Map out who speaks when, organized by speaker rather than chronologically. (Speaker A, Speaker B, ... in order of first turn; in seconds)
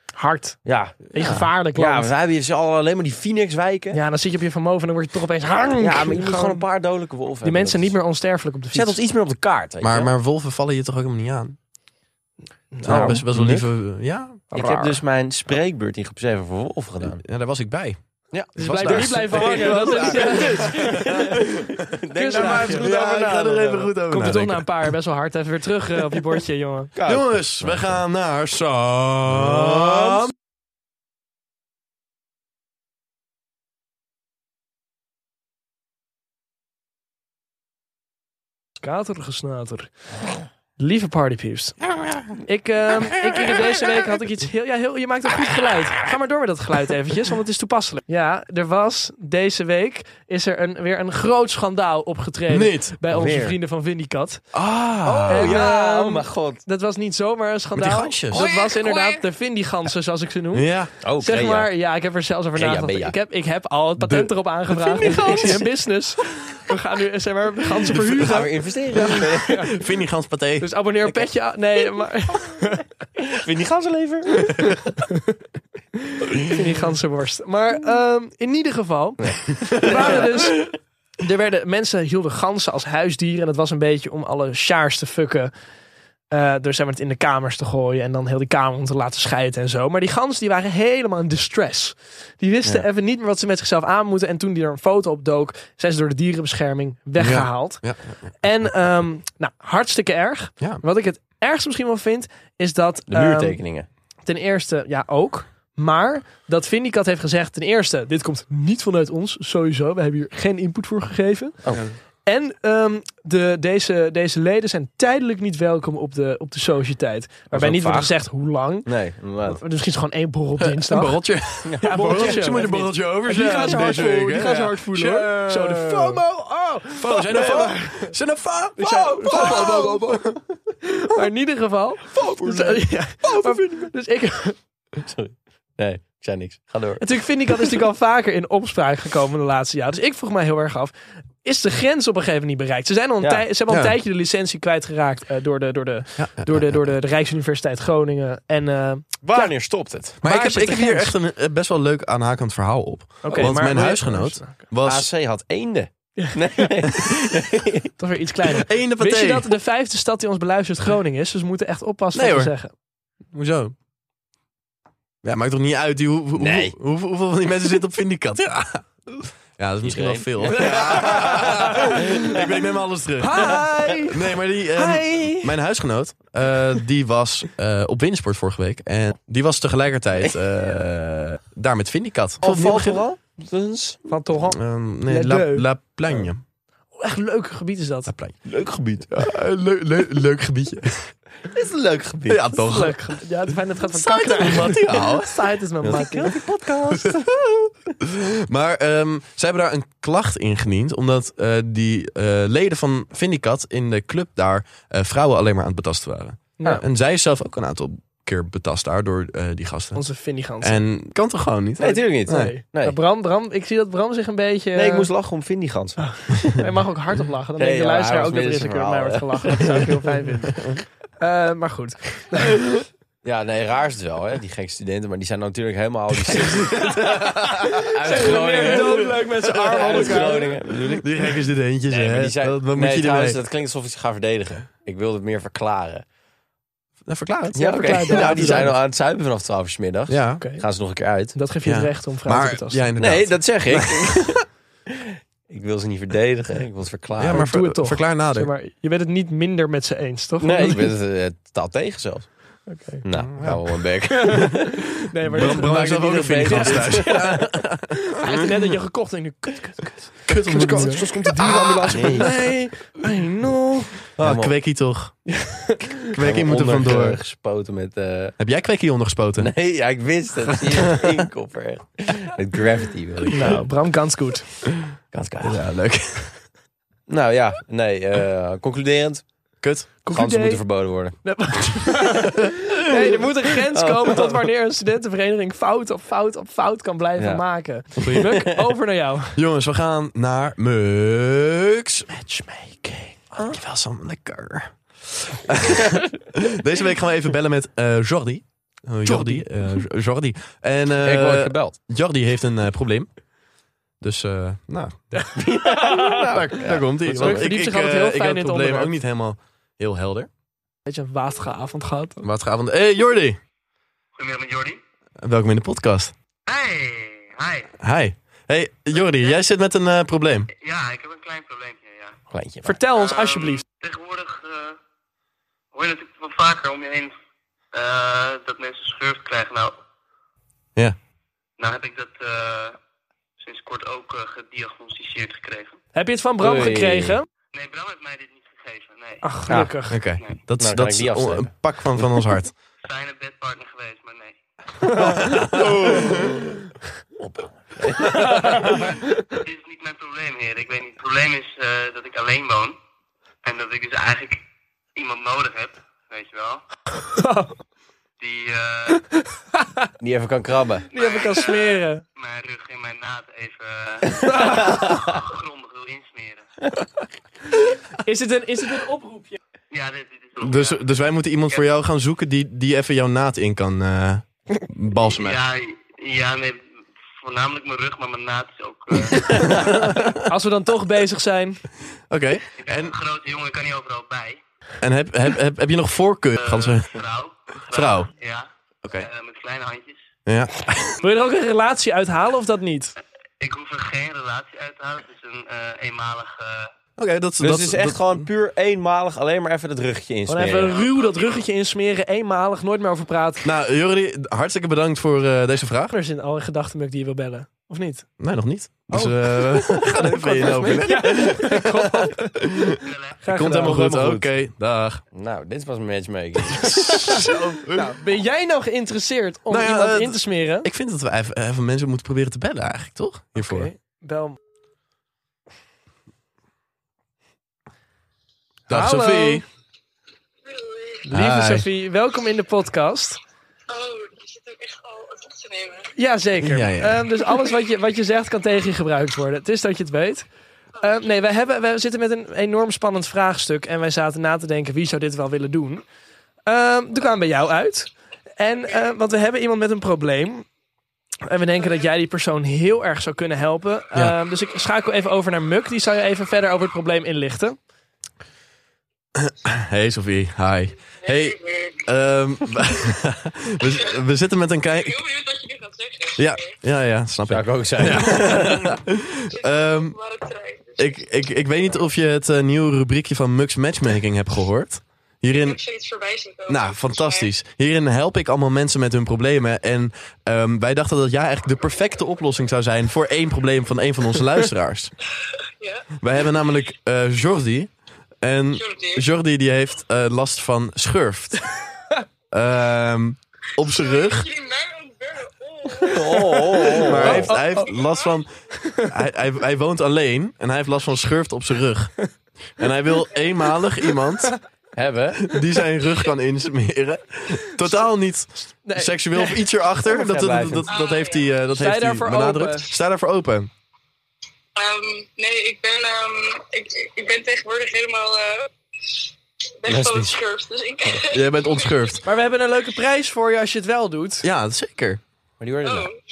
Speaker A: 0.1-0.6, 1.1-2.1, 3.9-6.6, 7.4-9.0, 12.7-13.2, 18.6-21.4, 22.1-22.9, 24.1-26.9, 38.8-39.9, 40.8-54.5, 55.3-69.7, 70.6-72.8, 74.5-75.3, 76.0-85.5, 86.3-103.6, 104.2-111.6, 112.2-118.9, 119.5-121.2, 121.8-128.1, 128.8-130.2, 130.8-134.6, 137.0-149.5, 150.2-151.1, 153.2-154.6, 156.2-156.7, 158.0-162.7, 170.6-172.2, 173.2-175.5, 184.1-185.7, 186.9-188.1, 192.5-196.3, 209.9-210.8, 212.2-215.1, 216.0-222.6, 226.6-230.8, 237.5-238.7, 240.4-240.6, 241.3-242.9, 247.3-250.9, 252.7-253.0, 254.1-264.0, 265.3-266.0, 273.3-274.4, 280.0-280.6, 281.2-289.4, 292.1-293.2, 299.1-299.4, 305.1-306.4, 307.2-308.9, 310.9-312.3, 322.6-323.6, 335.9-337.2, 339.2-340.0, 344.9-346.2, 348.0-349.1, 357.1-357.6, 358.9-359.9, 360.9-362.0, 364.2-364.8, 368.0-369.4, 379.1-381.6, 391.0-392.9, 400.3-403.5, 405.9-408.1, 408.9-414.2, 416.5-420.7, 423.4-424.4, 428.7-429.4, 431.1-433.2, 435.9-440.3, 440.8-445.8, 446.4-450.5, 451.2-457.6, 496.3-497.7, 498.6-498.9, 504.1-504.3, 508.5-509.4, 511.6-512.7, 522.0-524.3
Speaker B: 0.6-4.0, 5.8-8.0, 8.7-10.1, 12.8-13.7, 14.5-17.2, 18.3-23.9, 26.9-28.0, 29.3-30.2, 53.1-53.5, 55.0-56.6, 58.3-59.2, 61.0-61.7, 62.5-63.1, 65.0-65.5, 68.1-69.7, 73.2-74.7, 79.2-80.7, 103.1-103.9, 117.5-118.1, 118.8-119.6, 121.7-122.6, 129.3-129.7, 135.0-137.2, 149.2-150.2, 153.3-153.6, 154.8-157.9, 166.4-166.8, 169.8-172.5, 182.4-184.1, 188.4-189.2, 191.5-192.4, 195.8-197.7, 211.8-213.0, 214.7-216.6, 217.6-219.9, 223.2-231.2, 231.9-236.0, 237.6-241.4, 243.0-247.5, 250.4-252.3, 253.0-257.4, 260.7-262.4, 264.2-264.5, 266.0-268.4, 269.4-273.6, 275.1-275.6, 277.1-279.3, 280.0-281.2, 283.7-284.4, 287.2-287.4, 287.9-288.5, 301.0-301.8, 305.4-307.5, 322.3-322.8, 336.4-337.2, 340.6-342.2, 347.2-348.7, 360.0-360.9, 364.6-365.2, 397.4-400.8, 413.6-414.3, 415.1-417.3, 467.3-468.8, 495.8-497.3, 504.8-505.2, 509.8-510.7, 519.6-520.2, 525.4-525.9
Speaker C: 9.8-11.6, 12.8-14.9, 17.0-18.0, 18.5-21.7, 22.3-24.9, 27.0-30.3, 52.5-52.9, 54.5-55.6, 57.7-58.5, 60.5-60.9, 64.0-65.6, 67.9-68.4, 69.0-70.7, 97.2-98.3, 120.6-126.2, 126.9-130.4, 132.2-133.9, 143.7-143.9, 146.2-146.8, 150.2-155.1, 158.5-159.5, 162.1-162.5, 163.3-163.7, 165.2-183.0, 184.5-186.4, 188.1-188.4, 189.1-191.1, 192.3-193.0, 193.9-195.4, 196.9-197.2, 198.0-210.0, 210.6-212.5, 226.2-233.4, 237.1-238.7, 240.1-240.4, 241.6-244.4, 247.2-248.5, 253.3-253.6, 255.2-258.6, 260.3-262.4, 264.2-265.2, 266.1-267.2, 268.4-269.5, 270.7-271.0, 275.4-276.4, 279.6-279.9, 288.0-288.3, 289.3-292.1, 293.4-303.1, 304.0-305.1, 306.3-310.3, 312.2-313.4, 315.2-316.1, 317.8-320.5, 339.6-342.5, 345.2-346.3, 370.4-375.4, 379.3-380.2, 382.1-383.0, 384.8-387.0, 387.7-388.1, 388.8-389.1, 390.2-390.7, 397.0-398.3, 403.4-405.9, 408.2-415.0, 417.1-417.9, 419.5-423.7, 428.7-429.4, 431.1-431.7, 436.4-437.1, 459.2-465.0, 466.2-469.9, 470.8-475.6, 476.5-484.9, 486.0-487.7, 488.2-491.4, 492.3-494.3, 496.8-504.4, 505.2-513.5, 521.1-522.0, 524.2-525.0
Speaker D: 314.1-314.8, 316.4-317.7, 318.9-319.4, 320.6-322.2, 322.9-324.8, 325.7-327.1, 327.7-329.8, 331.6-332.8, 333.4-335.8, 337.5-339.2, 342.8-345.1, 349.3-352.8, 353.4-354.4, 354.9-356.6, 358.2-359.0, 360.9-366.5, 369.7-370.8, 375.1-376.6, 377.2-379.6, 382.6-384.4, 386.4-390.0, 393.4-396.7, 412.8-413.2
Speaker E: 430.4-431.1, 433.7-435.9, 461.0-461.9, 463.6-464.0, 464.8-466.5, 469.3-471.0, 475.4-477.3, 485.6-485.9, 488.5-489.1, 493.6-496.5, 497.4-498.2, 510.7-511.4, 514.5-519.0, 519.6-522.0, 525.6-526.0